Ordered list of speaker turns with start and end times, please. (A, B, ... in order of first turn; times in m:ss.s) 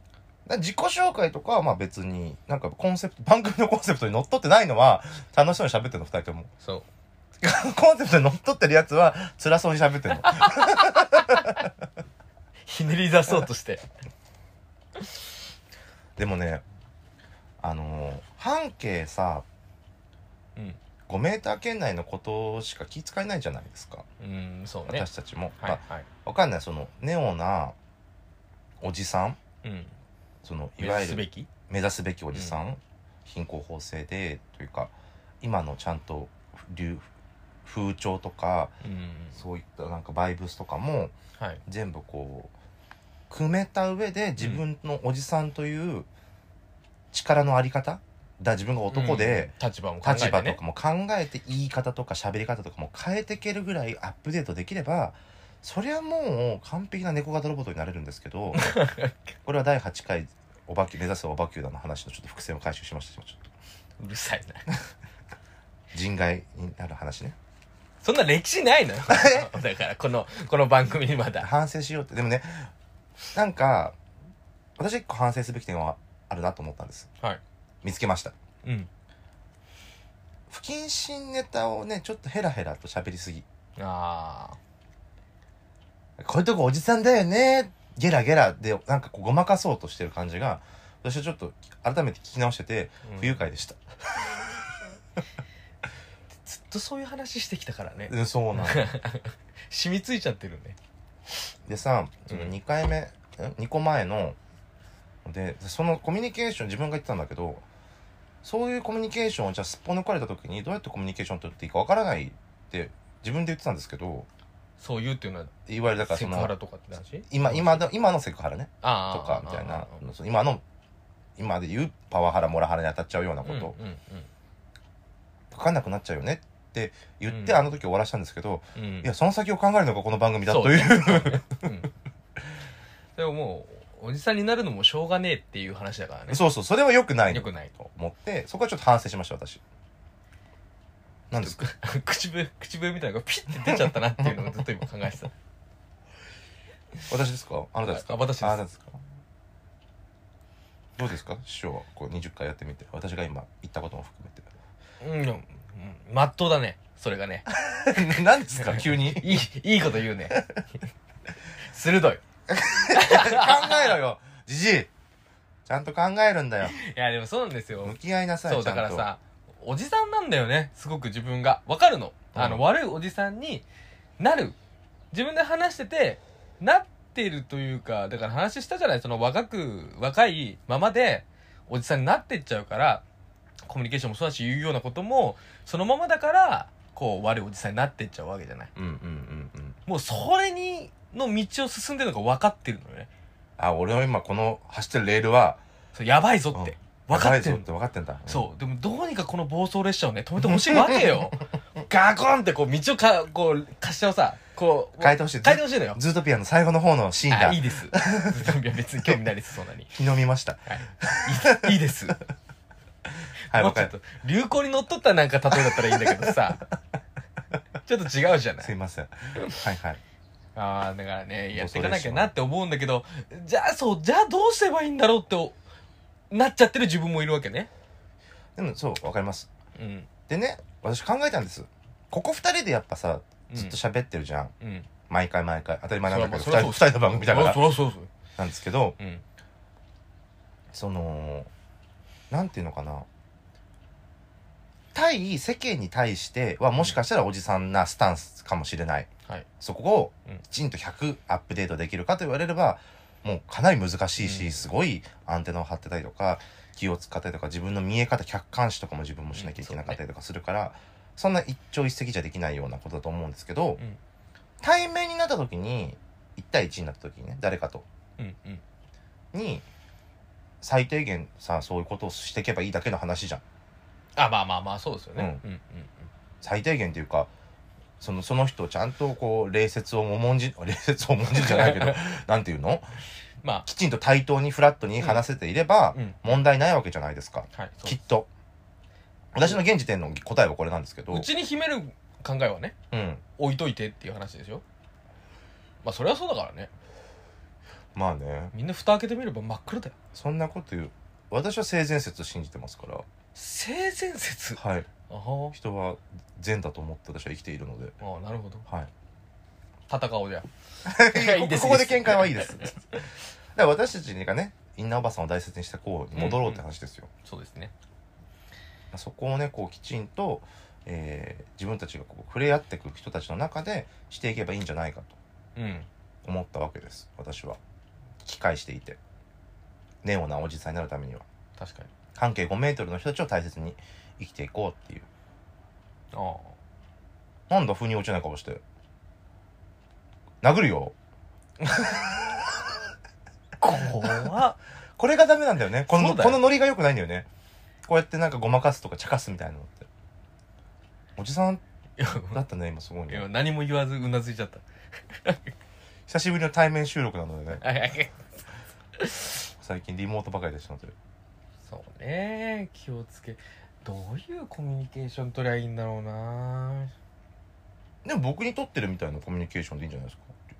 0:00.4-0:06.5 A
0:07.4-0:11.7 A
0:10.2-0:11.6 B
0:12.6-0:13.8 B
0:16.2-0:16.6 A
0:17.6-0:19.4 A
0:21.1-0:24.0 A
0:24.2-0:25.0 B
0:24.9-0:27.8 A
0:25.6-0:26.1 B
0:28.8-0:29.4 A
0:29.6-0:29.9 B
0:30.4-0:37.1 A
0:30.8-0:31.5 B
0:32.3-0:32.6 B
0:37.6-0:38.7 A
0:38.8-0:39.4 B
0:39.3-0:41.1 A
0:41.6-0:42.5 A
0:43.3-0:46.1 A
0:44.4-0:44.6 B
0:47.1-0:58.8 A
0:48.9-0:50.6 B
0:58.5-0:59.2 B
0:59.4-1:03.5 A
1:04.0-1:04.6 B
1:05.9-1:07.4 A
1:08.0-1:11.5 B
1:09.1-1:09.5 A
1:11.4-1:12.7 A
1:13.3-1:14.0 A
1:14.8-1:17.1 A
1:17.8-1:18.3 A
1:18.6-1:18.9 B
1:20.5-1:23.4 A
1:23.8-1:24.6 B
1:26.2-1:34.6 A
1:33.0-1:33.4 B
1:36.4-1:40.8 B
1:38.1-1:38.9 A
1:41.7-1:44.4 A
1:42.3-1:42.5 B
1:45.2-1:47.6 A
1:48.4-1:54.3 A
1:54.8-1:57.9 B
1:55.7-1:56.5 A
1:57.2-2:00.6 A
1:58.8-2:00.1 B
2:01.4-2:03.7 A
2:03.4-2:04.3 B
2:05.5-2:11.6 A
2:07.3-2:07.6 B
2:08.7-2:09.1 B
2:10.5-2:11.9 B
2:13.2-2:16.4 B
2:16.3-2:19.6 A
2:17.3-2:17.7 B
2:21.3-2:21.6 A
2:21.3-2:25.3 B
2:27.1-2:29.0 A
2:27.9-2:28.6 B
2:31.0-2:34.5 A
2:35.0-2:37.4 B
2:37.6-2:39.4 A
2:38.6-2:40.4 B
2:40.3-2:40.6 A
2:41.6-2:42.2 B
2:42.5-2:44.9 A
2:42.9-2:44.0 B
2:45.7-2:46.8 A
2:46.7-2:53.6 B
2:47.8-2:49.1 A
2:52.3-2:52.6 A
2:54.2-2:54.6 B
2:55.1-3:03.0 B
3:03.7-3:08.7 B
3:08.7-3:09.8 A
3:09.9-3:13.1 B
3:13.6-3:15.6 A
3:15.9-3:17.7 B
3:16.5-3:18.5 A
3:18.3-3:26.0 B
3:20.4-3:21.3 A
3:25.0-3:29.2 A
3:27.3-3:29.9 B
3:29.9-3:31.7 A
3:30.7-3:32.2 B
3:33.2-3:33.9 A
3:33.5-3:36.6 B
3:35.7-3:36.3 A
3:37.8-3:38.7 B
3:38.6-3:40.0 A
3:40.5-3:45.6 B
3:41.5-3:42.3 A
3:46.3-3:47.7 B
3:48.6-3:49.5 A
3:49.7-3:50.1 B
3:50.3-3:54.5 A
3:53.5-3:53.8 B
3:54.6-3:54.9 B
3:55.1-3:57.7 A
3:56.0-3:58.1 B
3:58.4-3:59.0 A
4:00.7-4:01.5 A
4:02.3-4:03.1 A
4:04.9-4:23.8 A
4:14.2-4:14.6 B
4:19.3-4:20.0 B
4:24.6-4:27.8 A
4:28.2-4:28.6 B
4:29.3-4:29.6 A
4:30.6-4:33.4 A
4:34.2-4:36.1 B
4:35.2-4:35.4 A
4:36.4-4:37.3 A
4:38.0-4:43.0 A
4:41.3-4:42.0 B
4:43.4-4:43.6 B
4:43.6-4:48.3 A
4:47.5-4:48.0 B
4:49.3-4:51.3 A
4:51.1-4:52.7 B
4:52.9-4:53.2 A
4:53.4-4:54.6 B
4:55.8-4:56.7 B
4:57.9-4:58.5 A
4:58.5-5:00.0 B
5:00.1-5:03.0 A
5:03.3-5:05.6 B
5:04.6-5:04.9 A
5:05.5-5:08.0 A
5:08.0-5:08.6 B
5:09.9-5:10.5 B
5:10.8-5:12.8 A
5:11.0-5:13.0 B
5:13.5-5:17.1 A
5:16.1-5:16.6 B
5:17.2-5:17.7 B
5:18.9-5:25.2 A
5:25.6-5:25.9 B
5:26.2-5:27.6 A
5:28.2-5:29.0 A
5:30.0-5:31.2 A
5:31.6-5:31.9 B
5:32.1-5:35.1 A
5:36.1-5:36.5 B
5:37.5-5:38.6 A
5:40.4-5:40.9 A
5:41.7-5:42.4 A
5:43.6-5:44.6 B
5:44.0-5:44.3 A
5:45.0-5:47.3 A
5:45.9-5:46.4 B
5:47.9-5:49.9 A
5:51.2-5:51.6 A
5:52.0-5:52.4 B
5:52.3-5:53.3 A
5:53.1-5:55.5 B
5:56.1-5:57.6 A
5:57.6-5:58.2 B
5:59.0-5:59.4 B
5:59.6-6:00.9 A
6:01.7-6:06.9 B
6:08.0-6:10.4 A